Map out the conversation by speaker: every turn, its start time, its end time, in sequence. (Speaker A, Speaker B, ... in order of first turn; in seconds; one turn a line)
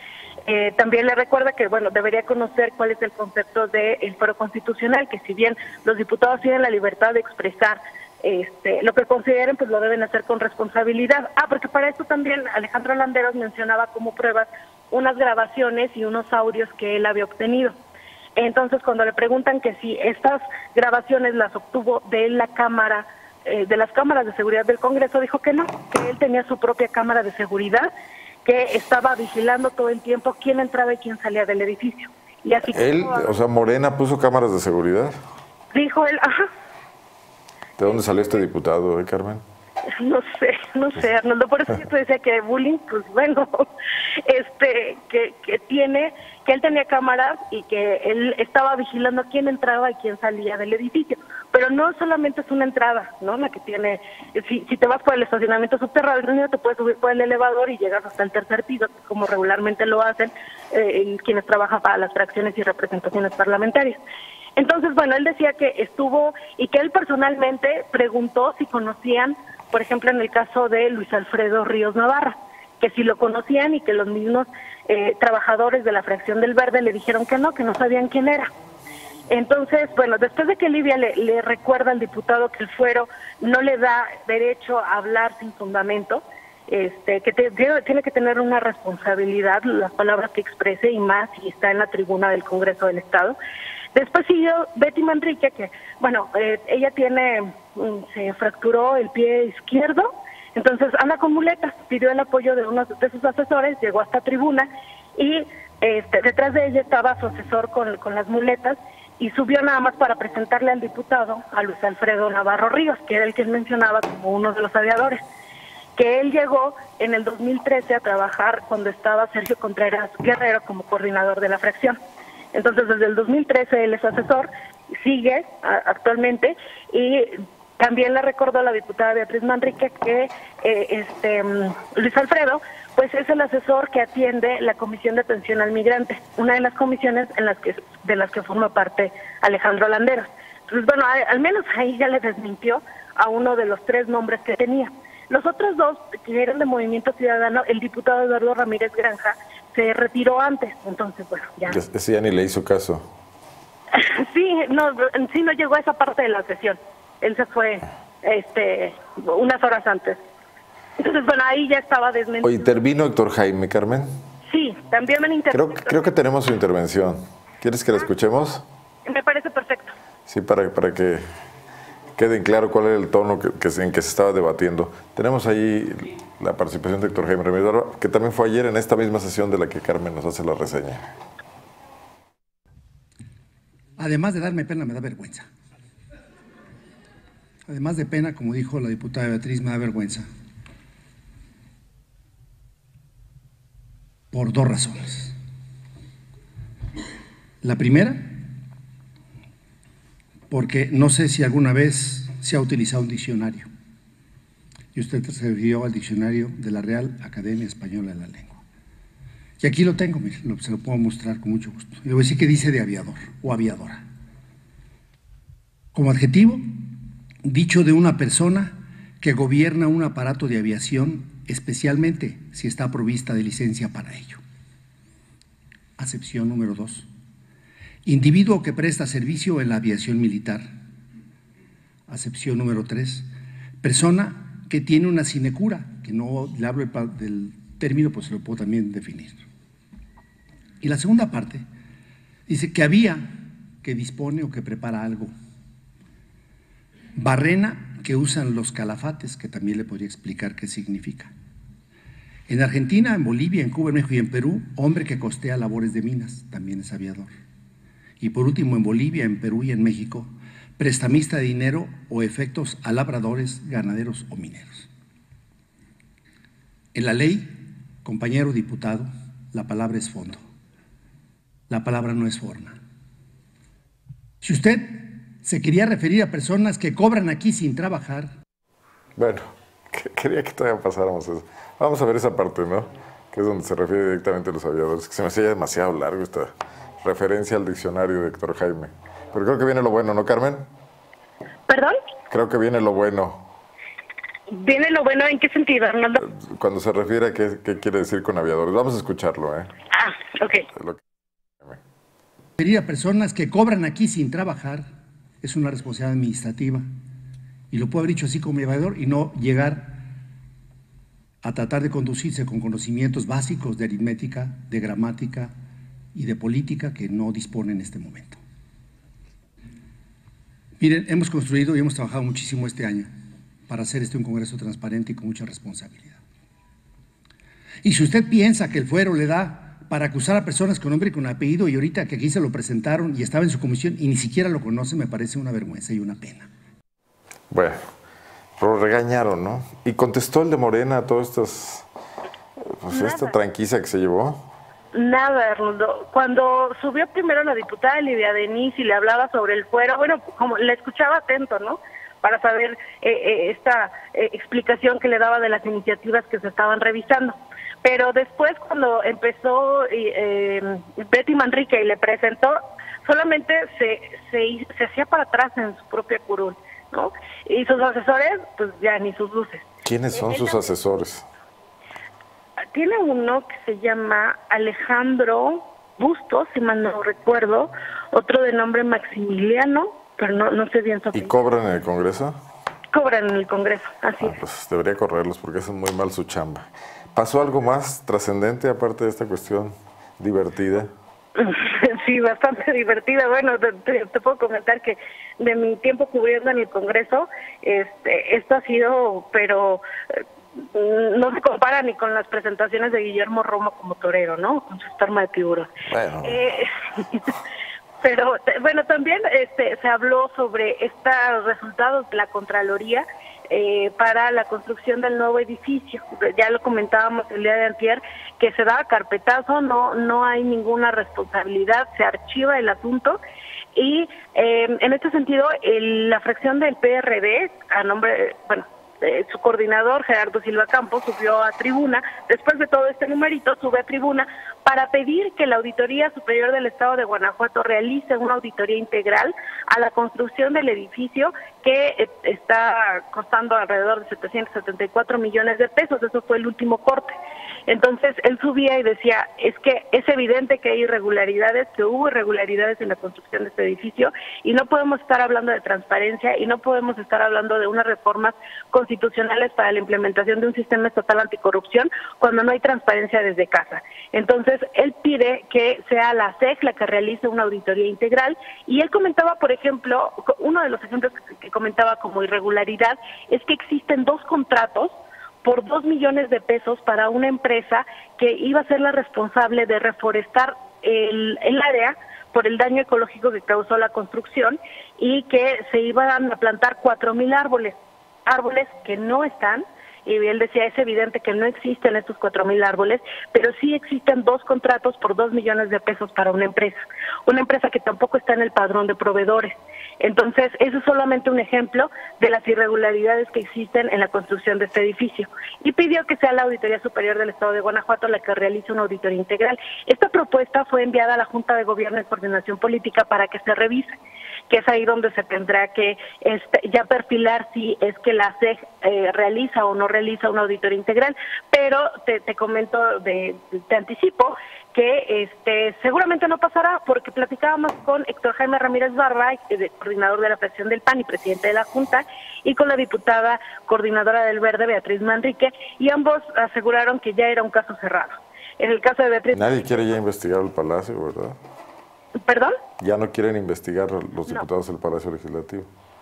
Speaker A: 0.5-17.8
Speaker A: 18.4-27.9
Speaker A: 28.4-33.4
Speaker B: 32.7-35.2
Speaker A: 35.7-36.5
Speaker B: 37.8-39.4
Speaker A: 39.9-43.7
Speaker A: 44.2-64.0
Speaker A: 64.6-78.5
Speaker A: 79.3-93.4
Speaker A: 93.9-115.2
Speaker A: 116.0-122.0
Speaker A: 122.5-151.8
Speaker B: 151.7-153.1
Speaker A: 153.9-160.2
Speaker A: 161.0-162.6
Speaker B: 162.4-164.1
Speaker A: 164.5-166.0
Speaker B: 165.5-168.7
Speaker A: 169.1-169.9
Speaker B: 170.3-171.2
Speaker B: 172.2-181.1
Speaker C: 184.0-185.5
Speaker C: 187.7-190.2
Speaker C: 194.3-195.3
Speaker C: 197.6-198.4
Speaker C: 200.5-203.7
Speaker C: 204.9-208.6
Speaker C: 209.6-214.0
Speaker C: 215.9-216.8
Speaker C: 217.4-224.4
Speaker C: 226.0-227.1
Speaker C: 228.1-230.7
Speaker C: 232.1-233.3
Speaker C: 233.8-239.4
Speaker C: 240.8-241.6
Speaker C: 242.5-245.3
Speaker C: 247.2-251.3
Speaker C: 252.5-257.3
Speaker C: 258.2-264.9
Speaker C: 266.9-270.4
Speaker C: 271.7-272.8
Speaker C: 274.4-278.3
Speaker B: 279.2-286.5
Speaker B: 287.0-290.7
Speaker A: 291.7-292.0
Speaker B: 292.3-293.4
Speaker A: 294.5-296.2
Speaker B: 296.2-299.7
Speaker A: 299.9-300.7
Speaker B: 300.7-301.0
Speaker C: 302.6-304.9
Speaker C: 305.4-306.9
Speaker C: 307.7-310.1
Speaker C: 311.4-315.5
Speaker C: 316.1-318.4
Speaker C: 320.8-323.1
Speaker C: 323.7-326.2
Speaker C: 327.8-336.5
Speaker B: 337.5-337.9
Speaker B: 338.6-341.9
Speaker B: 342.8-344.4
Speaker A: 342.9-343.4
Speaker A: 344.9-370.6
Speaker B: 369.9-371.3
Speaker A: 372.7-381.3
Speaker B: 381.1-382.4
Speaker A: 382.9-384.4
Speaker B: 384.2-390.9
Speaker A: 391.4-405.7
Speaker B: 405.9-406.4
Speaker A: 406.2-407.3
Speaker A: 408.0-423.2
Speaker A: 423.8-447.2
Speaker A: 447.7-514.0
Speaker A: 514.5-539.4
Speaker B: 539.3-541.4
Speaker A: 542.3-542.6
Speaker B: 542.8-545.7